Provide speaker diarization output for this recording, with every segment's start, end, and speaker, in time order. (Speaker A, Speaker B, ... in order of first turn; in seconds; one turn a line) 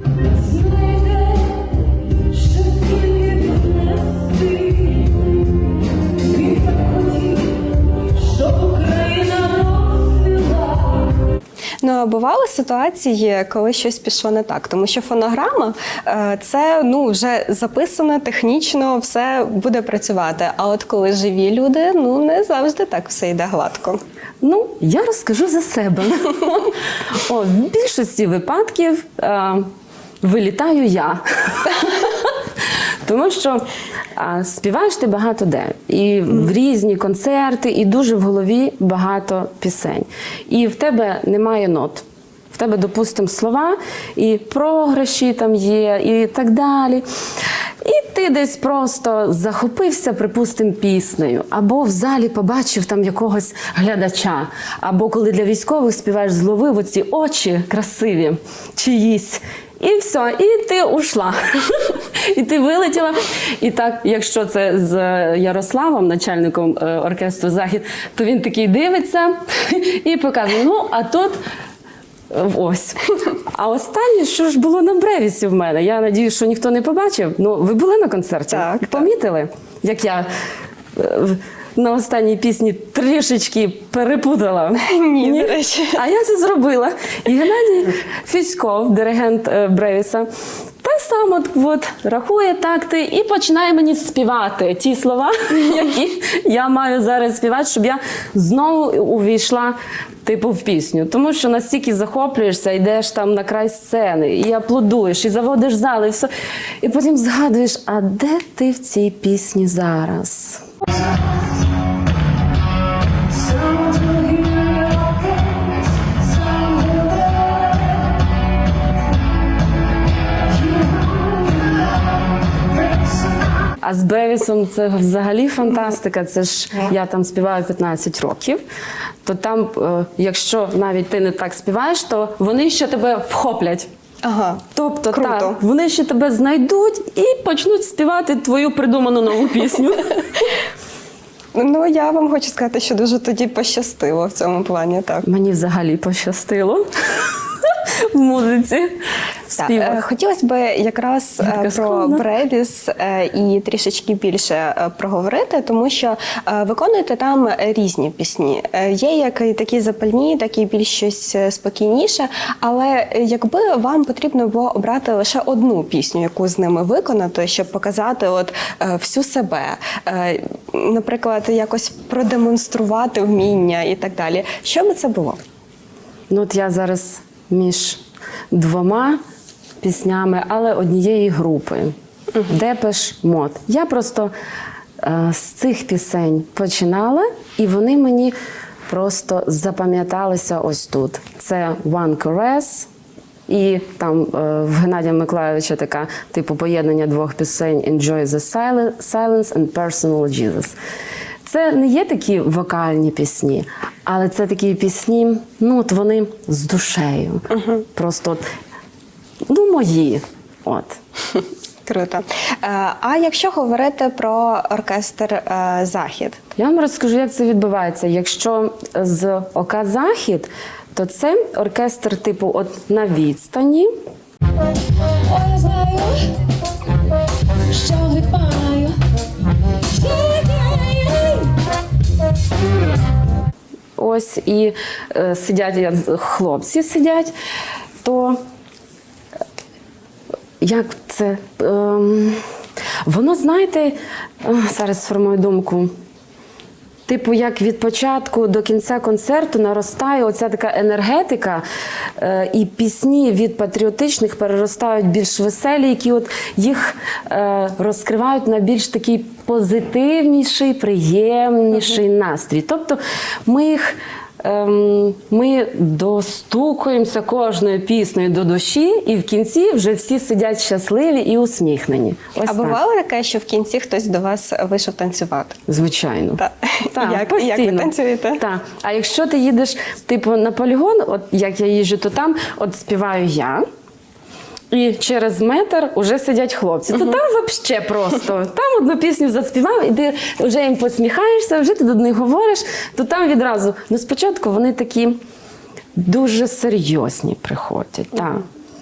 Speaker A: 0.2-5.4
Speaker A: 6.2-11.2
Speaker B: 11.8-24.0
Speaker C: 24.4-29.7
Speaker C: 30.2-32.4
Speaker C: 33.0-47.0
Speaker C: 47.8-71.4
Speaker C: 72.3-80.3
Speaker B: 78.5-79.1
Speaker C: 81.0-90.3
Speaker B: 84.8-86.0
Speaker C: 90.8-106.3
Speaker C: 106.8-110.7
Speaker A: 113.3-118.0
Speaker A: 120.5-122.1
Speaker A: 122.8-123.3
Speaker C: 123.8-128.6
Speaker C: 129.2-133.9
Speaker B: 134.2-135.6
Speaker C: 134.7-140.5
Speaker B: 141.6-145.3
Speaker C: 145.2-150.0
Speaker B: 149.6-175.4
Speaker C: 151.4-152.2
Speaker C: 176.3-179.2
Speaker C: 179.8-181.9
Speaker C: 182.5-184.3
Speaker C: 185.0-188.3
Speaker C: 188.9-192.9
Speaker C: 193.5-200.8
Speaker C: 201.4-208.4
Speaker C: 209.5-211.0
Speaker B: 211.8-216.4
Speaker C: 216.6-223.9
Speaker A: 225.3-226.3
Speaker A: 227.7-229.0
Speaker A: 229.9-231.6
Speaker C: 234.0-237.3
Speaker C: 238.0-238.4
Speaker C: 240.6-242.4
Speaker C: 243.1-245.9
Speaker C: 247.1-251.6
Speaker C: 252.2-272.8
Speaker B: 272.5-275.6
Speaker C: 275.7-283.6
Speaker B: 276.4-278.4
Speaker C: 284.7-295.2
Speaker C: 296.0-298.5